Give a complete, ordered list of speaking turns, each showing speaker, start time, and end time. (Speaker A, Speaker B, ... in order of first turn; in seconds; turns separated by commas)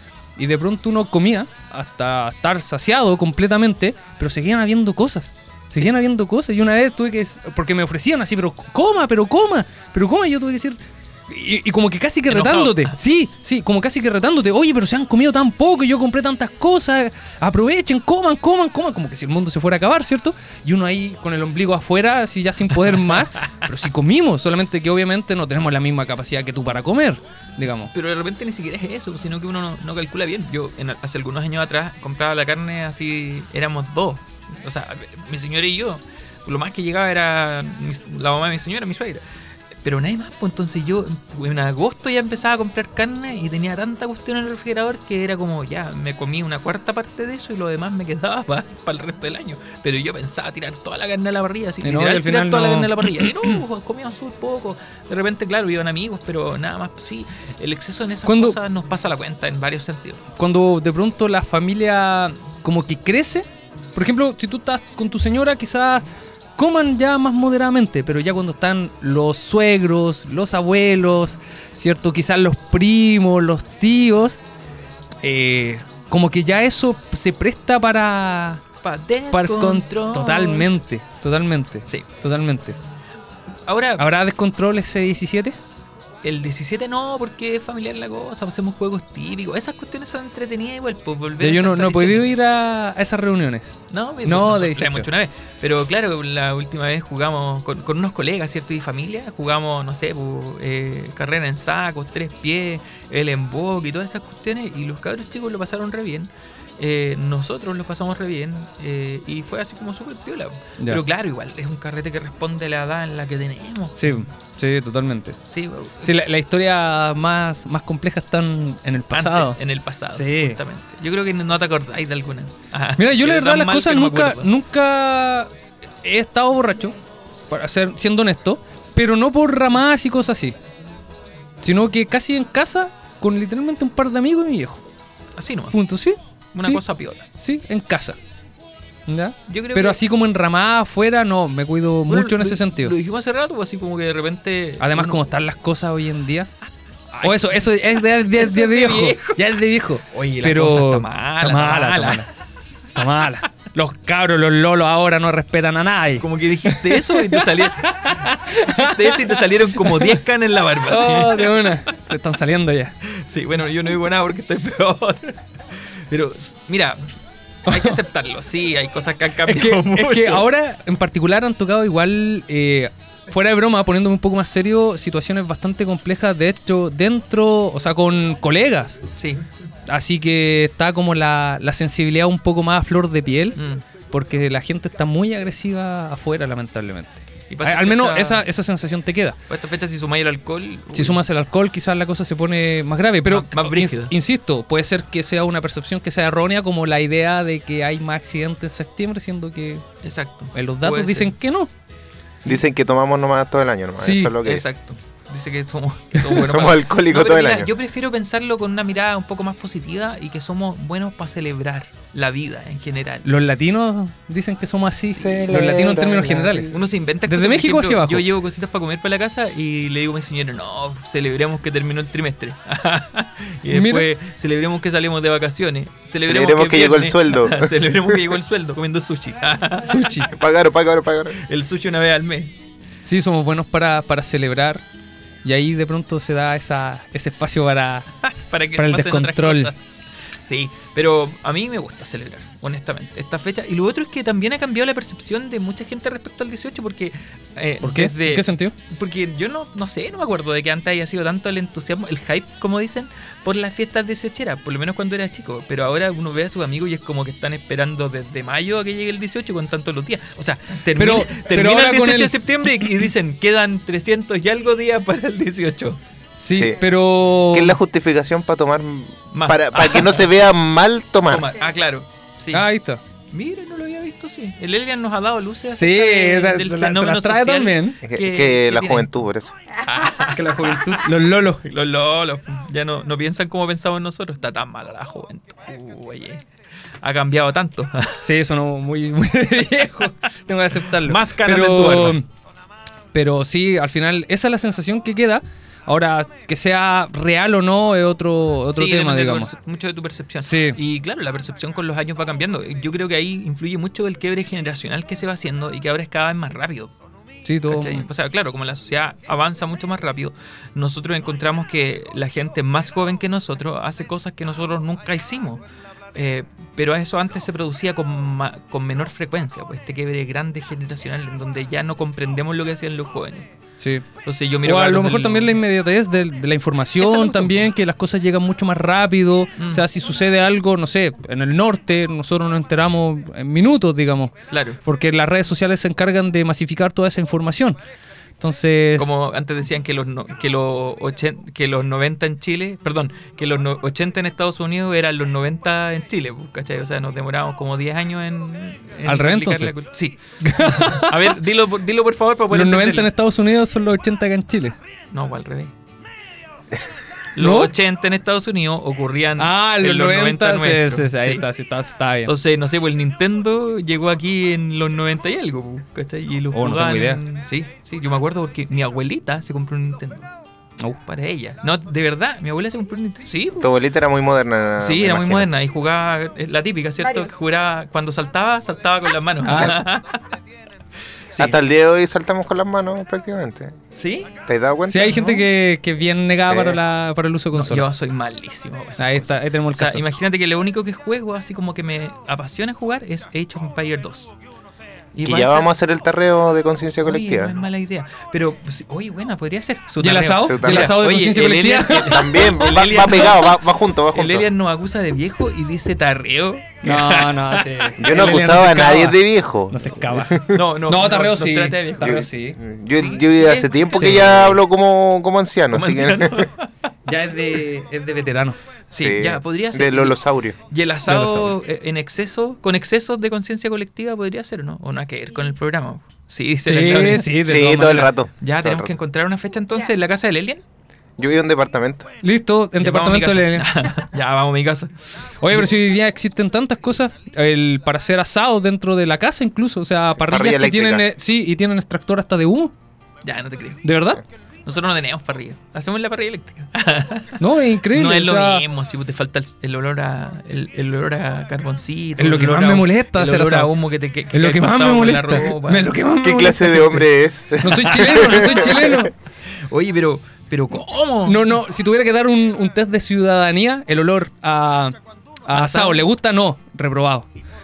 Speaker A: 0.4-27.9, Speaker B: 12.3-12.9, Speaker B: 27.9-39.2, Speaker B: 39.8-60.2, Speaker A: 51.8-53.5, Speaker A: 58.3-58.6, Speaker A: 60.4-66.1, Speaker A: 66.6-74.4, Speaker A: 75.2-78.6, Speaker B: 78.8-80.7, Speaker A: 79.3-82.8, Speaker B: 83.7-84.1, Speaker A: 84.0-85.6, Speaker B: 86.2-92.3, Speaker A: 91.4-95.1, Speaker B: 93.9-114.2, Speaker A: 114.0-115.4, Speaker B: 115.5-116.1, Speaker A: 116.0-119.6, Speaker B: 119.1-124.5, Speaker A: 120.1-120.6, Speaker A: 123.0-125.5, Speaker A: 126.0-127.0, Speaker A: 127.5-130.6, Speaker A: 131.6-134.8, Speaker B: 135.4-135.8, Speaker A: 135.7-136.8, Speaker B: 136.6-137.2, Speaker A: 137.4-138.2, Speaker A: 139.1-142.9, Speaker B: 139.5-140.0, Speaker B: 142.1-145.2, Speaker A: 144.8-146.5, Speaker A: 147.2-152.3, Speaker B: 147.2-152.3, Speaker A: 153.0-160.2, Speaker B: 156.2-161.8, Speaker A: 160.9-162.9, Speaker B: 163.1-167.0, Speaker A: 167.7-168.0, Speaker B: 167.7-170.5, Speaker A: 169.4-179.0, Speaker B: 179.2-179.4, Speaker A: 179.9-183.6, Speaker B: 183.6-183.8, Speaker A: 184.1-189.4, Speaker B: 187.5-188.4, Speaker B: 189.5-191.2, Speaker A: 190.9-199.8, Speaker B: 193.2-194.1, Speaker B: 200.0-201.3, Speaker A: 200.5-201.7, Speaker C: 202.4-204.7, Speaker A: 204.0-204.3, Speaker B: 204.4-213.3, Speaker C: 206.3-207.7, Speaker A: 213.2-216.7, Speaker C: 215.1-216.8, Speaker B: 216.7-230.3, Speaker A: 217.3-218.2, Speaker A: 223.7-224.1, Speaker C: 226.2-228.2, Speaker A: 229.9-230.3, Speaker C: 230.3-231.4, Speaker B: 231.4-232.5, Speaker A: 233.1-234.8, Speaker A: 235.4-238.1, Speaker B: 238.2-239.8, Speaker A: 238.8-239.7, Speaker B: 240.4-266.0, Speaker A: 247.8-248.7, Speaker A: 261.0-262.3, Speaker A: 266.4-267.8, Speaker C: 266.5-266.8, Speaker C: 267.5-271.5, Speaker B: 269.3-270.3, Speaker B: 271.3-272.7, Speaker A: 272.5-273.0, Speaker B: 273.3-281.0, Speaker A: 275.7-278.0, Speaker C: 278.0-279.6, Speaker A: 280.2-281.6, Speaker B: 281.6-286.4, Speaker B: 287.0-288.2, Speaker A: 288.2-292.3, Speaker B: 290.9-292.2, Speaker A: 293.1-299.5, Speaker B: 298.8-306.9, Speaker A: 300.4-300.8, Speaker A: 307.4-308.1, Speaker B: 307.7-315.6, Speaker B: 316.1-323.5, Speaker A: 323.8-324.1, Speaker B: 324.2-325.6, Speaker A: 324.6-337.8, Speaker B: 327.0-327.7, Speaker B: 329.6-329.8, Speaker B: 334.5-334.8, Speaker A: 338.4-339.1, Speaker B: 339.0-353.1, Speaker A: 349.1-349.7, Speaker A: 350.4-351.3, Speaker A: 352.5-354.8, Speaker B: 355.1-355.7, Speaker B: 357.4-361.4, Speaker A: 357.4-357.7, Speaker A: 359.4-362.3, Speaker B: 362.3-370.3, Speaker A: 366.5-367.2, Speaker B: 371.1-373.7, Speaker C: 373.6-375.5, Speaker B: 374.8-380.4, Speaker A: 379.4-379.8, Speaker B: 381.3-381.6, Speaker C: 381.4-383.8, Speaker B: 383.9-384.3, Speaker C: 384.5-385.3, Speaker A: 384.9-387.9, Speaker B: 385.1-385.4, Speaker C: 386.4-386.8, Speaker B: 387.5-394.3, Speaker A: 389.0-390.0, Speaker B: 395.1-395.7, Speaker C: 395.2-397.6, Speaker B: 397.0-403.6, Speaker A: 400.0-402.5, Speaker C: 400.4-401.0, Speaker C: 401.9-404.5, Speaker B: 404.1-407.9, Speaker A: 406.8-412.6, Speaker C: 408.0-410.6, Speaker B: 410.5-412.3, Speaker C: 412.0-416.5, Speaker B: 412.9-414.6, Speaker B: 415.7-416.9, Speaker A: 417.1-418.6, Speaker B: 418.9-427.4, Speaker C: 419.0-420.6, Speaker A: 426.6-428.1, Speaker C: 427.4-428.9, Speaker B: 428.4-430.6, Speaker C: 431.2-432.1, Speaker A: 432.2-433.7, Speaker B: 432.8-434.9, Speaker A: 435.4-442.7, Speaker C: 440.2-441.1, Speaker B: 443.2-443.8, Speaker A: 443.8-444.2, Speaker B: 444.6-456.0, Speaker A: 447.4-448.7, Speaker A: 452.2-453.7, Speaker A: 454.3-457.1, Speaker C: 456.2-459.0, Speaker A: 457.6-459.1, Speaker B: 457.7-459.1, Speaker B: 459.6-461.6, Speaker A: 461.3-464.9, Speaker A: 465.5-467.3, Speaker B: 465.5-466.0